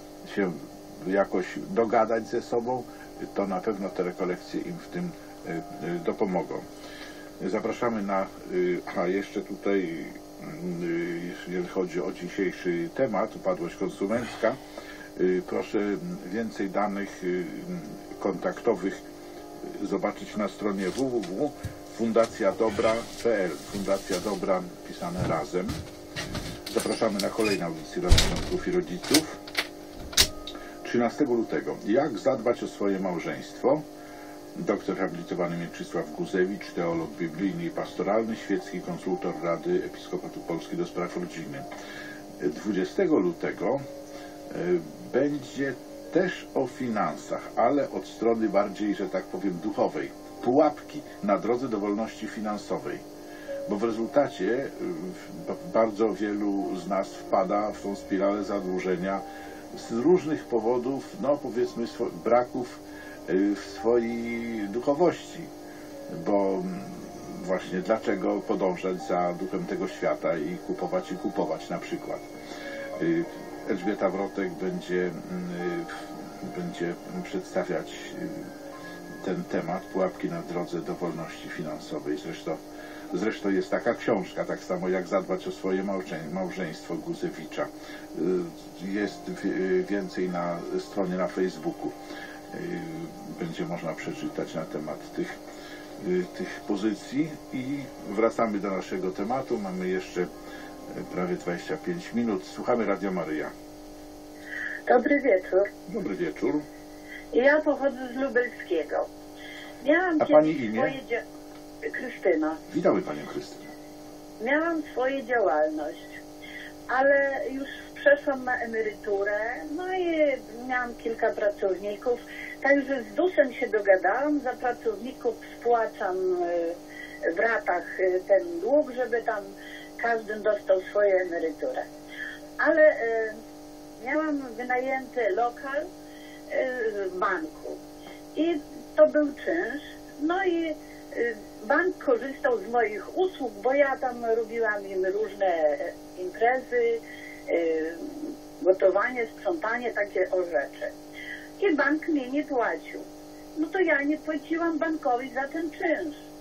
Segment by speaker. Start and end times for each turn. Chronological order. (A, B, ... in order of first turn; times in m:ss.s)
0:00.2-0:06.6 A
0:07.4-0:14.6 A
0:15.2-0:19.0 A
0:19.8-0:25.8 A
0:26.7-0:29.4 A
0:30.8-0:33.8 A
0:34.6-0:41.7 A
0:42.4-0:43.8 A
0:44.5-0:53.0 A
0:53.7-1:05.5 A
1:06.1-1:12.3 A
1:13.0-1:18.5 A
1:19.2-1:22.6 A
1:23.1-1:32.0 A
1:32.5-1:35.4 A
1:36.0-1:40.3 A
1:41.0-1:43.5 A
1:44.9-1:45.7 B
1:45.9-1:46.6 A
1:47.3-1:49.1 B
1:49.8-1:51.2 B
1:50.2-1:51.0 A
1:51.8-1:52.6 B
1:52.7-1:53.7 A
1:54.4-1:56.0 B
1:56.9-2:06.8 B
2:07.3-2:09.5 B
2:10.0-2:11.9 B
2:12.6-2:13.4 B
2:14.0-2:15.8 B
2:16.5-2:17.8 B
2:18.4-2:30.9 B
2:31.6-2:33.0 B
2:33.6-2:36.2 B